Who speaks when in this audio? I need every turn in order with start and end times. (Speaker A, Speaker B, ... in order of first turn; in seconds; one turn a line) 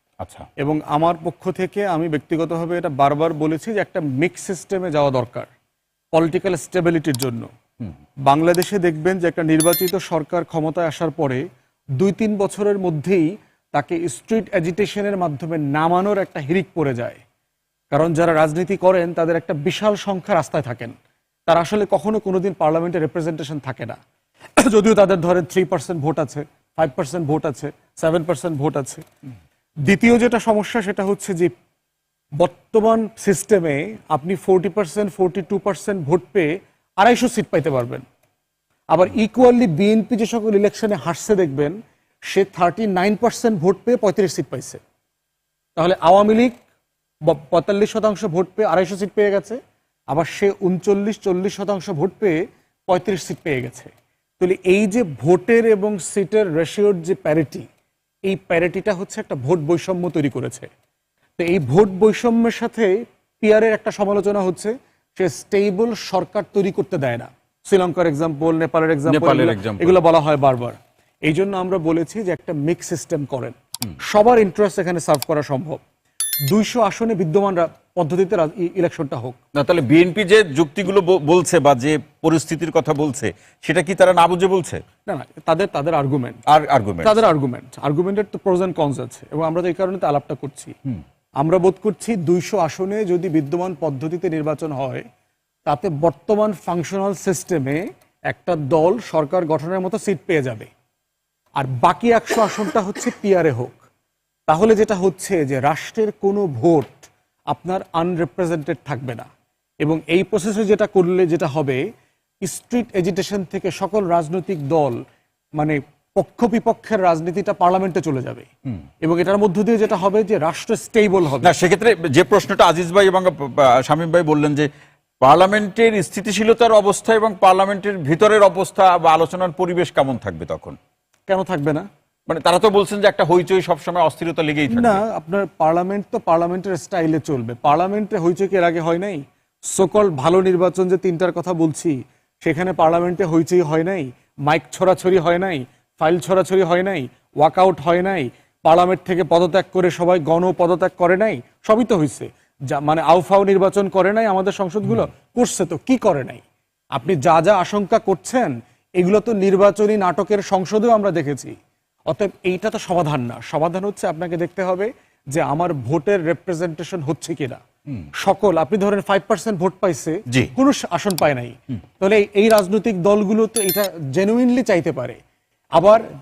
Speaker A: 0.2-0.5
Speaker B: 0.6-5.5
Speaker B: 6.1-7.5
Speaker B: 8.2-11.4
Speaker B: 12.0-17.2
Speaker B: 17.9-20.9
Speaker B: 21.5-24.0
Speaker B: 24.6-29.0
Speaker B: 29.8-31.5
Speaker B: 32.4-38.0
Speaker B: 38.9-41.7
Speaker B: 42.3-44.8
Speaker B: 45.8-46.5
Speaker B: 47.2-49.6
Speaker B: 50.1-52.4
Speaker B: 52.9-57.6
Speaker B: 58.2-60.7
Speaker B: 61.4-75.8
Speaker A: 69.0-70.0
Speaker B: 76.5-79.4
Speaker A: 79.5-84.8
Speaker B: 85.0-86.4
Speaker A: 86.5-87.2
Speaker B: 87.0-90.7
Speaker B: 91.4-95.0
Speaker B: 95.7-100.7
Speaker B: 101.5-103.8
Speaker B: 104.5-109.3
Speaker B: 109.8-111.8
Speaker B: 112.4-115.0
Speaker B: 115.6-118.5
Speaker B: 119.0-121.5
Speaker A: 121.4-124.7
Speaker A: 125.2-130.8
Speaker B: 131.3-131.9
Speaker A: 132.3-135.0
Speaker B: 134.7-156.4
Speaker B: 156.9-161.5
Speaker B: 162.1-167.6
Speaker B: 168.2-175.2
Speaker B: 175.8-176.0